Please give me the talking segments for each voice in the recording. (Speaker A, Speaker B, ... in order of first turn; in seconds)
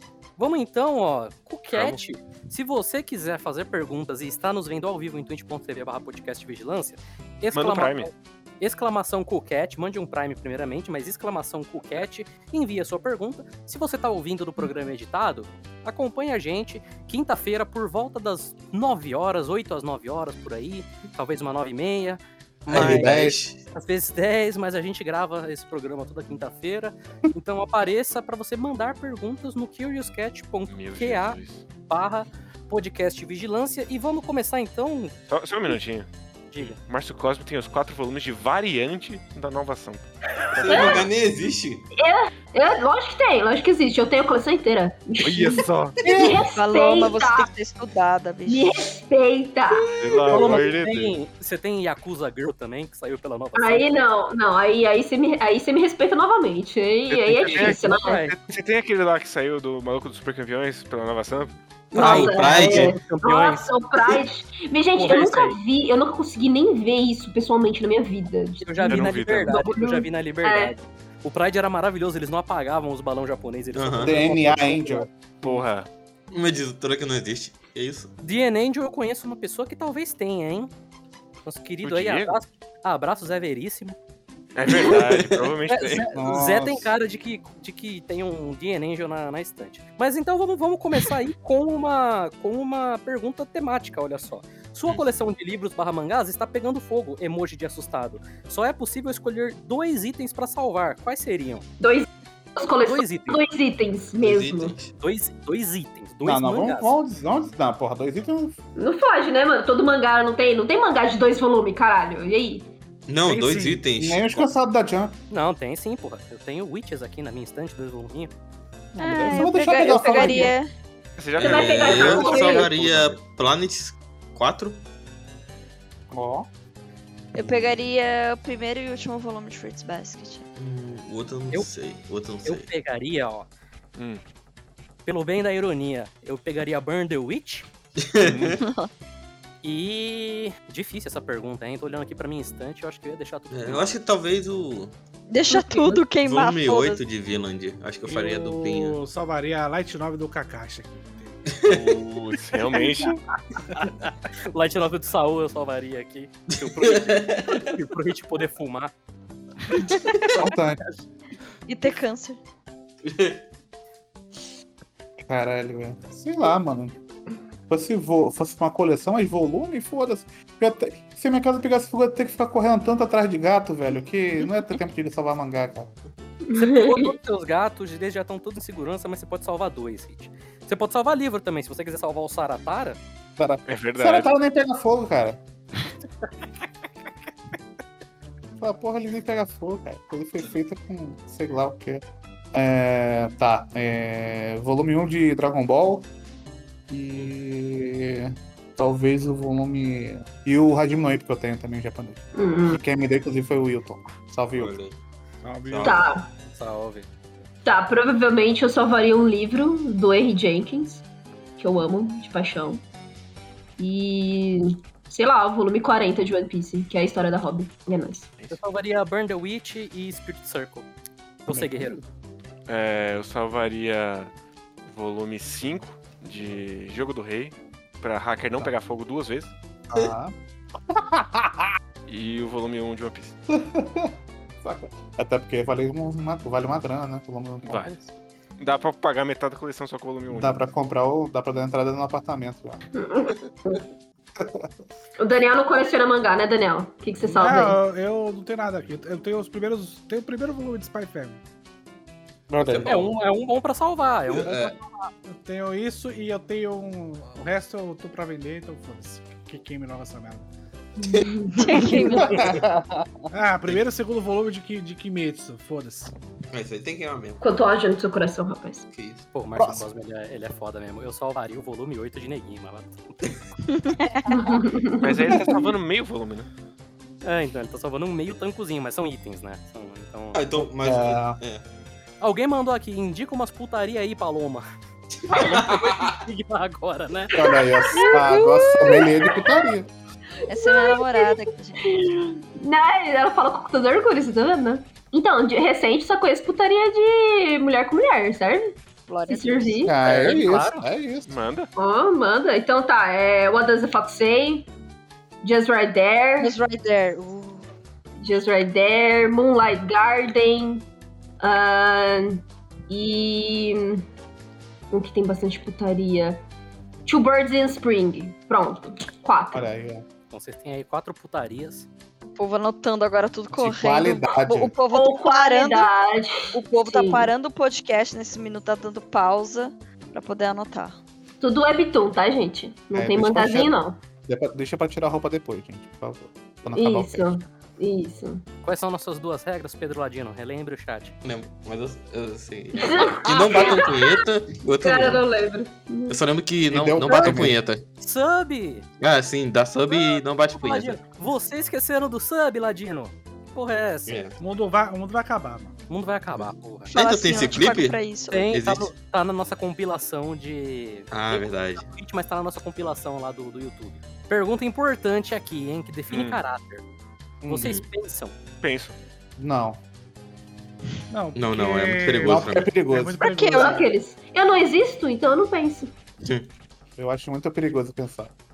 Speaker A: 0.4-35.1, 36.5-36.8, 50.3-54.0, 57.5-58.3, 62.0-63.7, 64.9-65.6, 68.6-75.0, 78.2-80.7, 81.4-84.0, 85.7-101.7, 102.8-103.4, 105.0-106.9, 115.3-118.3, 132.4-133.5, 135.0-137.7, 139.6-143.9, 154.5-158.9, 176.6-183.0, 206.5-207.1, 218.5-220.8, 221.5-222.0, 252.8-255.1, 269.3-273.3, 277.2-280.5, 282.2-284.6, 285.3-287.3, 300.0-300.8, 320.3-321.9, 338.6-341.1, 347.1-347.3, 348.0-348.9, 349.9-354.1, 355.9-356.9, 358.3-366.8, 367.5-368.4
Speaker B: 1.7-2.0, 7.5-8.1, 30.7-31.6, 35.3-40.0, 40.5-40.9, 45.2-46.0, 50.0-51.1, 57.1-61.5, 68.8-69.6, 75.4-75.9, 81.8-82.4, 84.5-86.1, 121.2-123.2, 138.2-138.6, 151.6-153.2, 183.7-184.3, 222.7-224.3, 224.8-229.5, 232.1-233.3, 238.6-240.7, 275.0-276.5, 301.3-301.7, 366.1-366.4, 368.6-368.9
Speaker C: 22.7-23.6, 40.5-41.9, 61.9-63.0, 73.7-74.2, 76.3-78.1, 84.8-85.5, 104.2-104.9, 113.1-114.5, 121.4-124.8, 130.6-132.7, 138.0-138.6, 143.5-144.9, 146.2-149.0, 151.5-151.9, 156.6-157.7, 163.0-163.4, 204.5-205.0, 205.6-206.1, 252.6-253.2, 254.3-254.8, 266.5-267.4, 268.9-269.3, 280.3-281.6, 285.3-286.1, 341.2-345.2, 346.1-347.8, 349.0-351.0, 354.1-354.4, 356.3-358.0, 358.5-358.9, 361.1-361.9, 367.6-367.8, 371.3-372.7, 376.2-376.5
Speaker D: 22.7-23.3, 74.0-75.1, 86.0-86.9, 106.2-108.5, 113.9-115.1, 118.9-120.5, 126.1-126.5, 160.3-160.8, 165.3-166.9, 167.7-175.9, 183.4-185.4, 188.6-192.0, 192.5-196.1, 196.9-204.7, 221.5-221.9, 229.9-230.3, 230.9-231.7, 233.5-238.0, 240.3-242.8, 244.4-244.7, 252.5-253.0, 262.2-263.1, 269.5-269.8, 280.8-281.4, 287.3-289.9, 299.8-301.3, 319.5-320.0, 323.5-324.7, 332.9-333.7, 334.3-337.3, 346.7-347.6, 367.4-367.7, 369.4-369.8, 372.2-373.2, 377.0-378.3
Speaker E: 40.7-41.0, 42.0-47.5, 48.5-50.6, 53.5-58.2, 61.9-70.7, 101.8-104.7, 108.8-112.7, 121.4-122.7, 145.5-146.0, 176.4-177.1, 202.3-202.8, 205.8-206.3, 207.6-211.0, 211.6-212.8, 213.8-218.3, 242.9-243.8, 245.2-247.8, 261.0-262.3, 267.4-268.8, 274.3-275.5, 287.4-289.6, 290.5-298.7, 299.3-299.9, 301.8-304.7, 305.4-306.5, 308.2-310.9, 311.4-314.1, 314.9-316.4, 317.1-319.7, 324.9-327.3, 331.4-334.0, 336.7-338.4, 342.8-344.2, 344.8-346.2, 373.6-375.9
Speaker F: 46.3-48.8, 119.0-120.7, 127.3-130.5, 138.6-138.9, 145.3-147.0, 161.7-162.4, 261.5-262.6, 273.7-274.6, 290.5-291.8, 299.1-299.9, 306.4-307.7, 322.3-325.9, 326.5-331.0, 356.9-358.5, 373.2-373.8
Speaker G: 113.2-113.8, 148.1-151.4, 205.4-206.0, 247.3-251.4, 255.2-260.5, 263.3-266.1, 354.4-355.8, 371.1-373.8